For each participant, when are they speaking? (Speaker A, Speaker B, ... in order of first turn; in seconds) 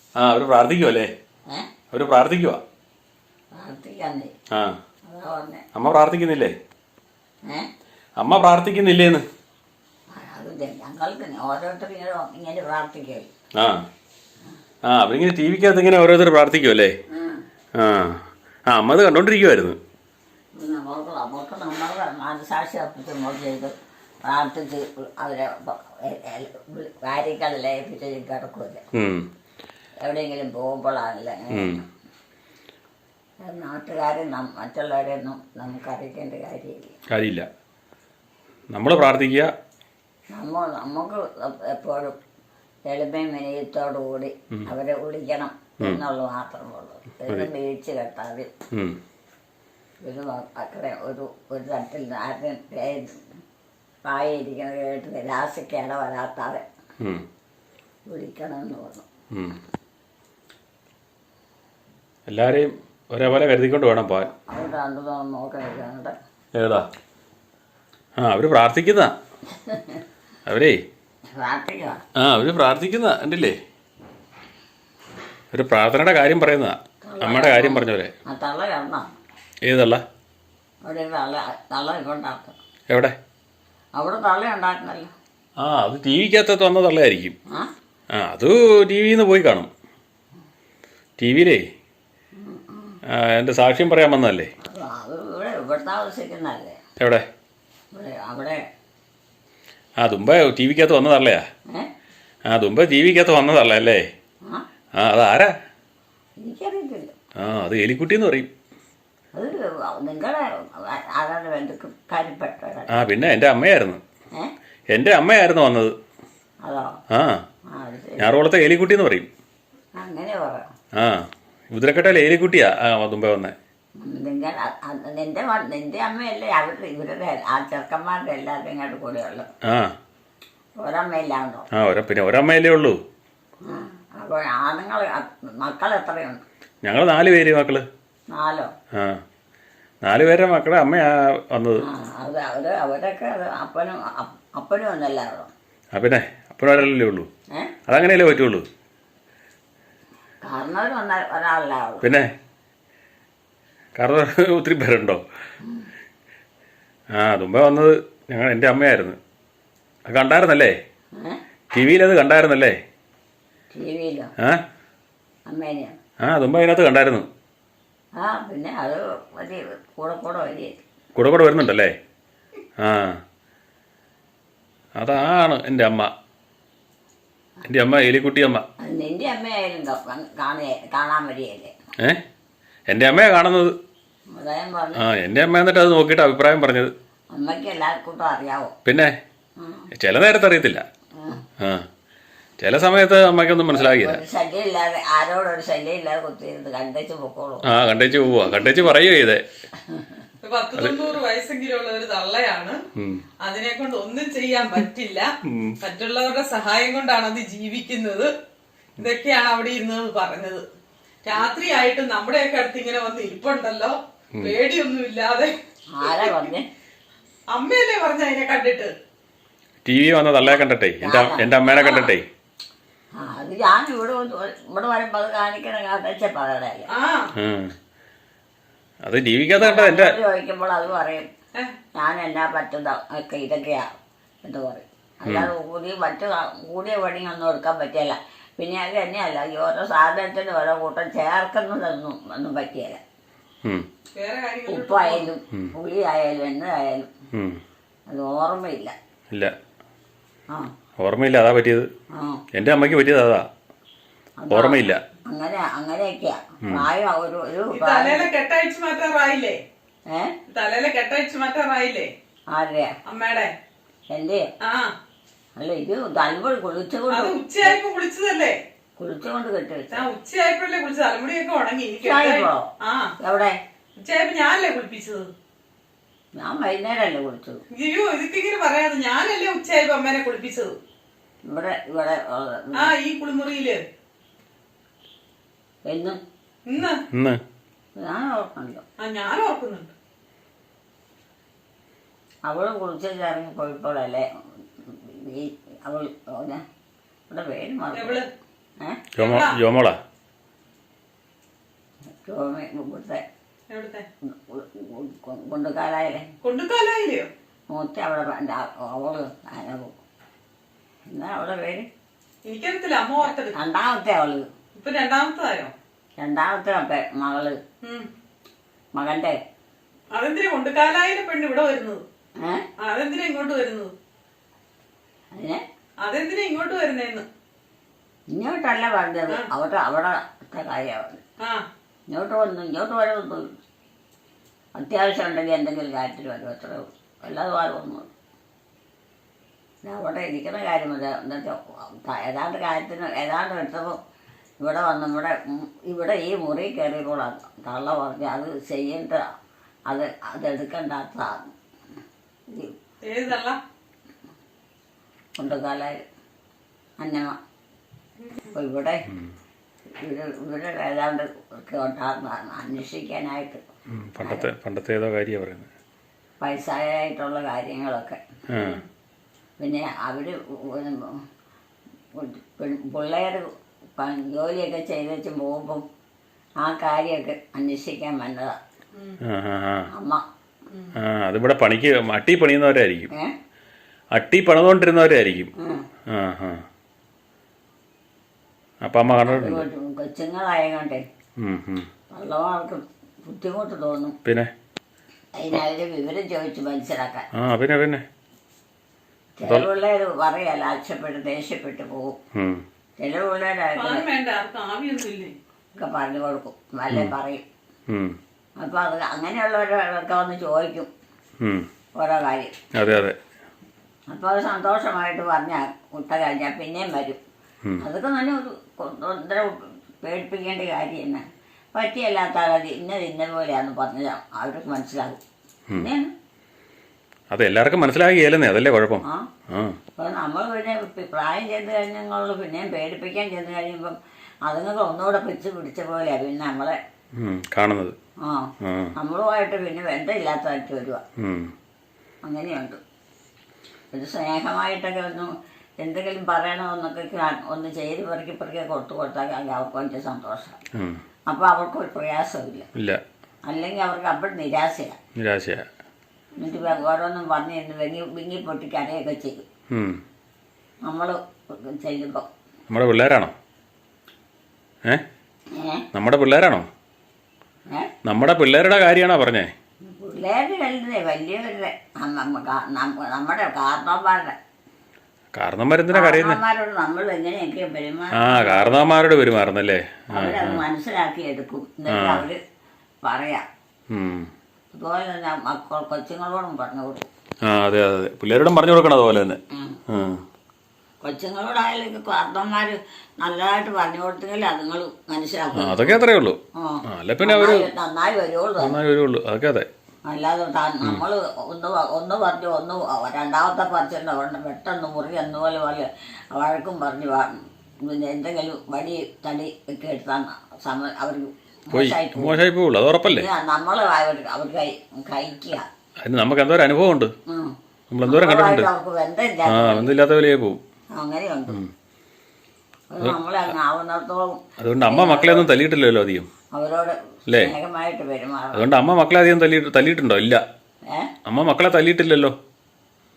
Speaker A: 0.2-1.1, 1.9-2.6, 5.7-6.5, 8.2-9.2, 13.5-13.8, 14.8-16.9, 17.8-19.8, 28.9-29.3, 31.5-31.8, 37.1-37.5, 38.7-39.5, 48.7-49.0, 59.3-59.6, 62.3-64.3, 66.5-66.9, 68.2-69.2, 70.5-70.8, 72.2-73.5, 75.5-78.1, 79.6-80.0, 82.9-83.2, 85.6-87.3, 88.2-89.7, 91.2-91.6, 93.1-94.5, 97.0-97.2, 100.0-101.4, 102.5-104.0, 105.0-105.5, 107.4-108.5, 112.9-114.0, 114.9-115.9, 117.1-117.4, 118.2-119.3, 121.0-123.5, 129.7-129.9, 131.7-133.0, 136.8-137.8, 138.9-139.2, 140.0-141.8, 145.9-147.3, 147.9-148.7, 152.0-152.3, 153.9-155.2, 157.2-159.2, 160.1-160.7, 161.7-162.8, 166.2-167.2, 171.2-171.9, 172.8-173.2, 175.0-176.1, 177.6-178.6, 182.9-183.7, 185.0-186.9, 188.8-189.1, 189.9-190.8, 191.6-191.8, 192.6-194.2, 197.7-199.4, 200.8-201.1, 202.9-203.3, 205.4-205.8, 219.8-222.2, 227.3-227.7, 229.0-230.1, 247.3-247.6, 251.0-251.9, 252.5-253.5, 254.5-255.0, 287.1-287.4, 299.1-299.9, 363.9-365.7, 368.5-368.8, 379.2-379.9, 380.9-383.1, 384.1-385.5, 386.1-386.6, 388.8-389.6, 391.4-391.9, 394.2-394.5, 397.3-398.0, 402.3-402.6, 407.9-408.1, 412.7-413.2, 427.3-429.8, 437.2-437.9, 438.6-438.9, 441.2-441.5, 450.7-451.0, 452.7-453.0, 455.2-455.6, 459.7-460.0, 462.7-463.3, 465.9-466.7, 468.0-469.5, 475.3-476.4, 478.1-480.6, 481.9-482.2, 483.9-484.3, 487.4-490.2, 495.6-497.7, 498.6-499.7, 511.7-513.3, 516.0-517.1, 517.9-518.7, 519.5-520.6, 524.6-526.3, 528.5-530.4, 531.2-532.3
Speaker B: 3.5-4.3, 5.0-5.6, 10.1-13.3, 17.1-17.4, 20.6-28.8, 30.0-31.8, 33.4-37.0, 40.3-42.1, 42.9-48.5, 50.0-53.2, 54.0-56.6, 58.1-59.0, 64.3-66.2, 69.5-70.0, 71.3-72.0, 77.0-79.1, 80.8-82.5, 84.0-85.1, 92.4-93.0, 94.6-96.8, 97.9-98.6, 106.4-107.1, 109.3-113.0, 116.6-117.0, 117.7-118.3, 120.0-120.7, 124.0-129.5, 130.8-131.7, 133.6-136.4, 138.3-138.7, 141.8-145.5, 150.4-152.1, 163.7-164.3, 165.4-166.0, 168.2-170.8, 178.8-181.7, 184.3-185.0, 187.3-188.7, 189.6-189.9, 191.2-191.4, 193.7-197.6, 199.9-200.2, 215.9-216.7, 220.4-222.1, 223.2-226.9, 229.5-231.2, 231.9-233.8, 234.4-243.0, 244.7-247.1, 248.1-248.9, 252.1-252.4, 254.4-258.3, 260.1-260.3, 262.5-262.9, 264.1-264.4, 265.6-267.8, 269.0-270.1, 272.0-272.6, 273.2-273.5, 276.4-277.6, 281.4-282.9, 285.8-286.2, 288.0-288.8, 292.4-294.2, 294.8-296.6, 297.3-298.2, 302.2-303.2, 304.2-306.2, 307.7-309.9, 311.1-311.9, 313.2-314.5, 316.2-317.6, 318.9-319.4, 322.4-322.6, 325.3-325.6, 328.3-331.2, 332.1-333.6, 334.8-338.1, 339.8-344.0, 344.6-349.2, 349.9-351.5, 355.4-356.0, 357.0-357.4, 358.5-359.0, 359.9-363.6, 364.2-364.4, 366.4-368.2, 369.6-371.2, 372.1-375.8, 376.6-378.6, 379.9-380.2, 385.6-385.9, 389.2-391.0, 392.1-394.2, 395.3-397.2, 399.4-402.2, 403.0-404.1, 405.8-407.4, 408.6-410.9, 412.0-412.5, 414.1-417.2, 417.8-425.2, 425.8-426.1, 430.0-436.8, 438.2-441.0, 442.2-442.8, 443.9-450.6, 451.3-452.7, 453.4-454.9, 456.4-459.4, 460.8-462.3, 465.5-465.9, 469.9-474.4, 475.9-478.8, 480.1-482.4, 483.0-483.4, 484.7-487.1, 489.5-489.8, 491.0-496.0, 496.6-498.8, 500.1-512.4, 513.1-515.6, 517.3-517.5, 518.0-519.9, 520.9-521.6, 522.9-525.5, 526.5-528.7
Speaker C: 200.4-202.8, 203.4-208.3, 209.0-210.6, 211.2-216.4, 217.5-218.9, 226.9-227.3, 244.1-245.3, 257.7-259.6, 260.5-262.1, 263.0-263.5, 264.6-264.9, 267.1-268.6, 269.9-273.1, 274.0-275.3, 277.7-280.7, 282.7-283.8, 286.6-287.0, 289.0-289.9, 297.9-298.3, 299.2-299.6, 303.7-304.1, 306.4-307.3, 312.4-313.6, 314.8-315.7, 317.8-318.1, 320.1-322.0, 322.8-323.9, 326.0-327.2, 331.4-331.6, 353.0-353.6, 358.2-358.5, 368.6-368.8, 403.7-405.3